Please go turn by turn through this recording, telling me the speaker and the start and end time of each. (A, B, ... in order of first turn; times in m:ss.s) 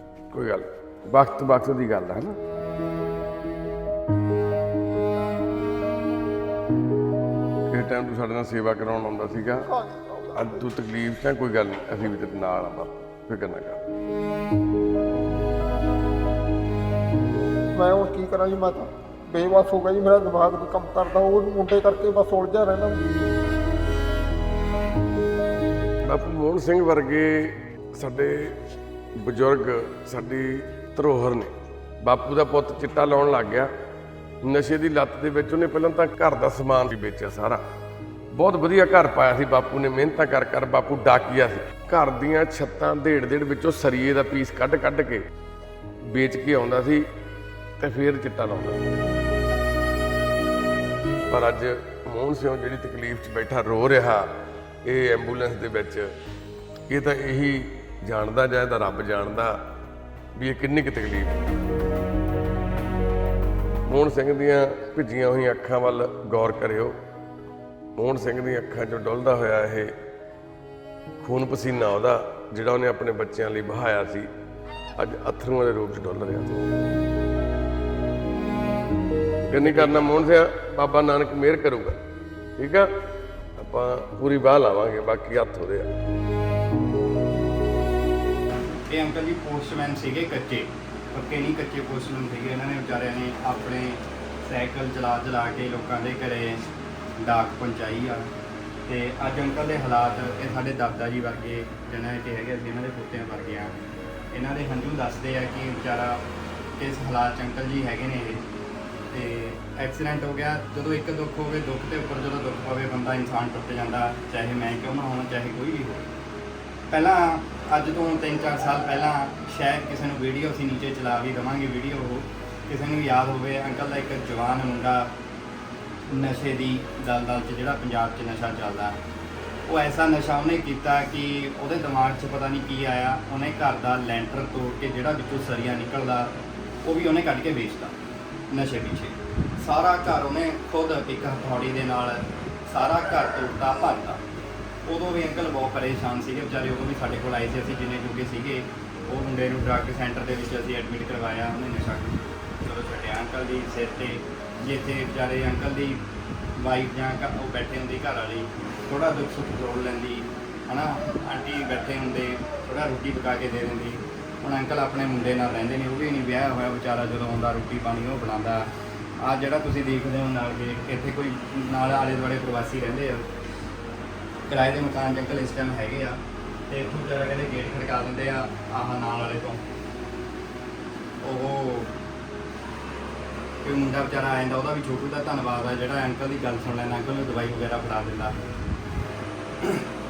0:00.3-0:02.4 A
0:07.7-0:09.7 A
0:09.6-0:10.6 B
0:10.4-0:13.8 A
0:17.7-0:23.0 B
0:26.0-0:28.6 A
0:29.2-0:33.7 A
0:34.4-0:37.6 A
0:38.3-0:45.3 A
0:46.0-0:47.1 A
0:47.8-0:48.8 A
0:51.3-0:54.3 A
0:54.8-0:56.1 A
0:56.9-0:59.6 A
1:00.4-1:01.4 A
1:03.9-1:07.0 A
1:08.0-1:09.9 A
1:11.2-1:14.3 A
1:15.0-1:16.5 A
1:19.5-1:22.0 A
1:19.6-1:20.2 C
1:22.6-1:22.9 A
1:23.6-1:25.9 A
1:28.9-1:36.7 C
1:37.2-1:38.3 C
1:38.9-1:43.8 C
1:44.3-1:46.2 C
1:46.8-1:48.5 C
1:49.1-1:56.1 C
1:56.9-2:05.1 C
2:06.1-2:09.0 C
2:09.7-2:18.0 C
2:18.5-2:24.2 C
2:24.9-2:36.0 C
2:36.6-2:53.3 C
2:54.5-2:59.6 C
3:01.2-3:01.9 C
3:03.6-3:08.4 C
3:09.6-3:09.9 C